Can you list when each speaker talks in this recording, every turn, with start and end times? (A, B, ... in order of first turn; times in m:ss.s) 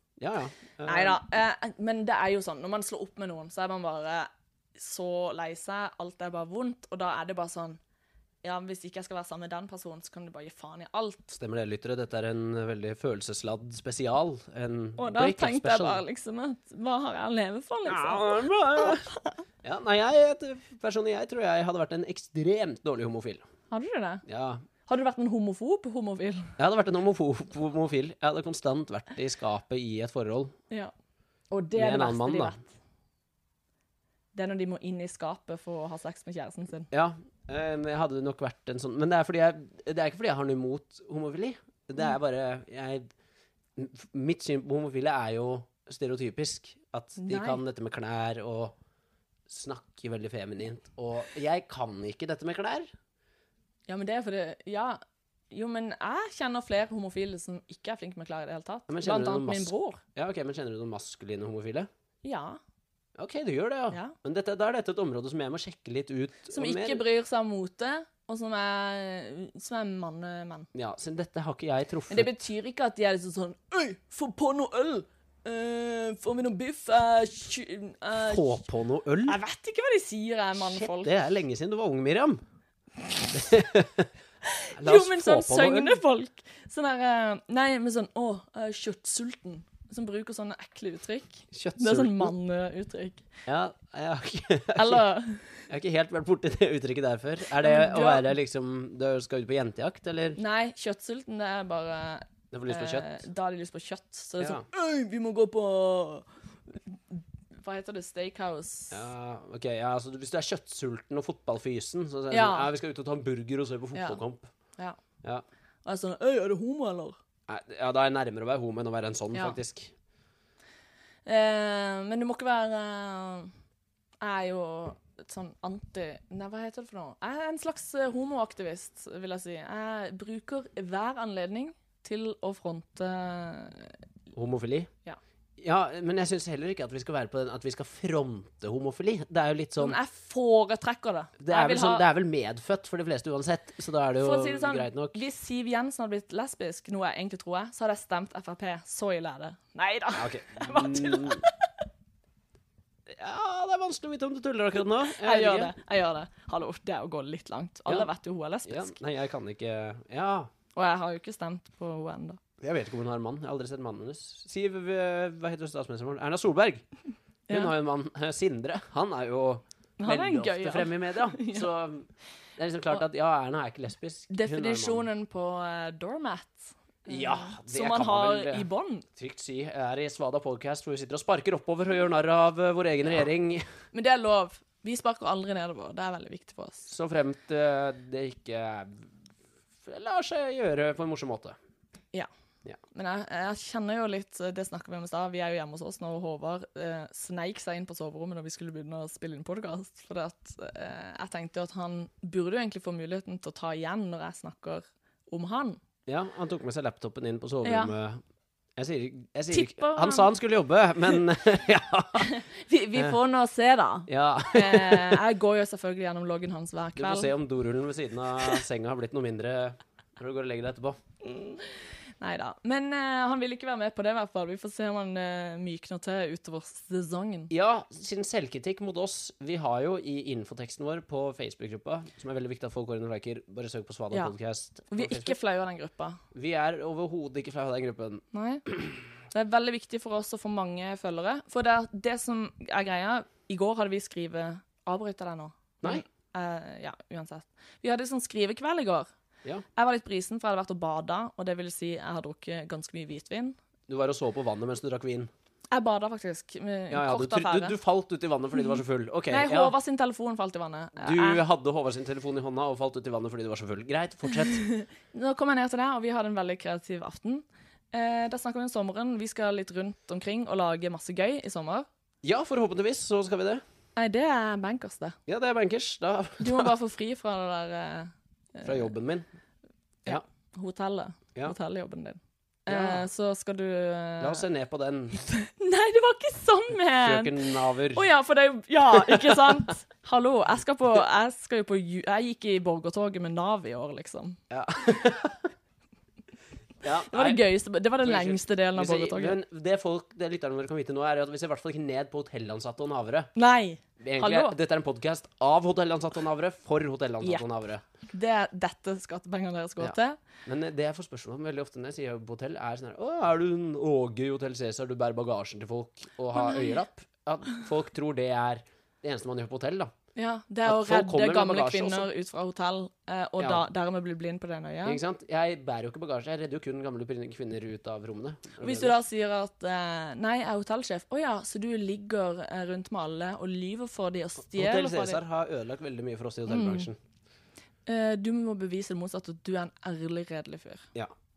0:00.2-0:01.2 A
0:00.8-0:07.8 B
0:08.4-0:11.4 B
0:11.3-0:16.0 A
0:15.0-0:19.3 B
0:17.9-0:19.0 A
0:19.6-0:23.5 A
0:23.7-0:24.2 B
0:24.3-0:24.6 A
0:24.9-0:26.6 B
0:26.6-0:30.6 A
0:31.5-0:32.7 B
0:31.8-0:32.6 A
0:34.3-0:36.9 B
0:36.9-0:43.1 A
0:43.8-0:48.8 A
0:47.2-0:47.6 B
0:49.5-0:52.9 A
0:53.9-1:00.0 B
0:58.9-1:01.9 A
1:02.2-1:02.6 B
1:03.2-1:07.0 A
1:06.5-1:10.7 B
1:10.7-1:12.3 A
1:12.1-1:18.6 B
1:18.2-1:19.4 A
1:19.3-1:21.1 B
1:20.6-1:22.4 A
1:23.3-1:24.1 A
1:24.4-1:33.3 B
1:24.8-1:26.0 A
1:31.5-1:32.3 A
1:33.5-1:35.0 A
1:34.8-1:35.6 B
1:35.7-1:40.4 A
1:37.5-1:38.3 B
1:40.4-1:49.1 B
1:42.5-1:43.2 A
1:44.4-1:44.6 A
1:48.9-1:54.5 A
1:52.3-1:52.7 B
1:54.0-1:54.2 B
1:55.8-1:57.2 B
1:57.5-1:59.9 A
2:01.2-2:03.5 B
2:04.2-2:14.0 B
2:14.3-2:14.9 A
2:15.6-2:20.0 A
2:19.8-2:22.0 B
2:21.4-2:25.2 A
2:24.2-2:31.7 B
2:30.1-2:31.4 A
2:33.1-2:35.7 A
2:35.1-2:39.0 B
2:38.6-2:40.5 A
2:40.7-2:42.4 B
2:42.6-2:46.8 A
2:47.5-2:55.1 A
2:50.0-2:51.7 B
2:54.3-2:59.1 B
2:57.1-3:03.7 A
3:03.9-3:06.9 B
3:06.9-3:09.1 A
3:09.9-3:11.6 A
3:12.9-3:25.8 B
3:26.1-3:28.2 A
3:27.6-3:27.9 B
3:28.8-3:32.3 A
3:29.5-3:30.3 B
3:32.2-3:37.3 B
3:34.1-3:35.2 A
3:37.0-3:41.0 A
3:41.2-3:47.5 B
3:47.5-3:55.4 A
3:54.9-3:56.2 B
3:56.3-3:58.2 A
3:58.3-3:58.6 B
3:59.3-4:09.1 B
4:09.8-4:13.6 B
4:13.9-4:15.3 A
4:15.7-4:17.8 B
4:16.9-4:19.7 A
4:18.6-4:21.4 B
4:21.0-4:24.6 A
4:24.3-4:31.9 B
4:32.2-4:33.6 A
4:34.0-4:35.2 B
4:35.3-4:36.7 A
4:36.4-4:38.9 B
4:38.6-4:39.3 A
4:40.1-4:44.4 B
4:42.7-4:43.0 A
4:44.2-4:45.2 A
4:45.2-4:54.4 B
4:47.0-4:48.1 A
4:49.1-4:49.4 A
4:54.5-4:55.5 A
4:56.8-4:57.4 A
4:57.1-4:59.4 B
4:58.0-5:03.3 A
5:03.4-5:04.5 B
5:04.0-5:07.8 A
5:08.1-5:10.2 B
5:09.8-5:19.9 A
5:16.3-5:16.8 B
5:20.2-5:25.0 B
5:20.6-5:22.1 A
5:24.8-5:29.0 A
5:28.6-5:35.2 B
5:34.5-5:37.0 A
5:36.5-5:36.9 B
5:37.9-5:40.9 B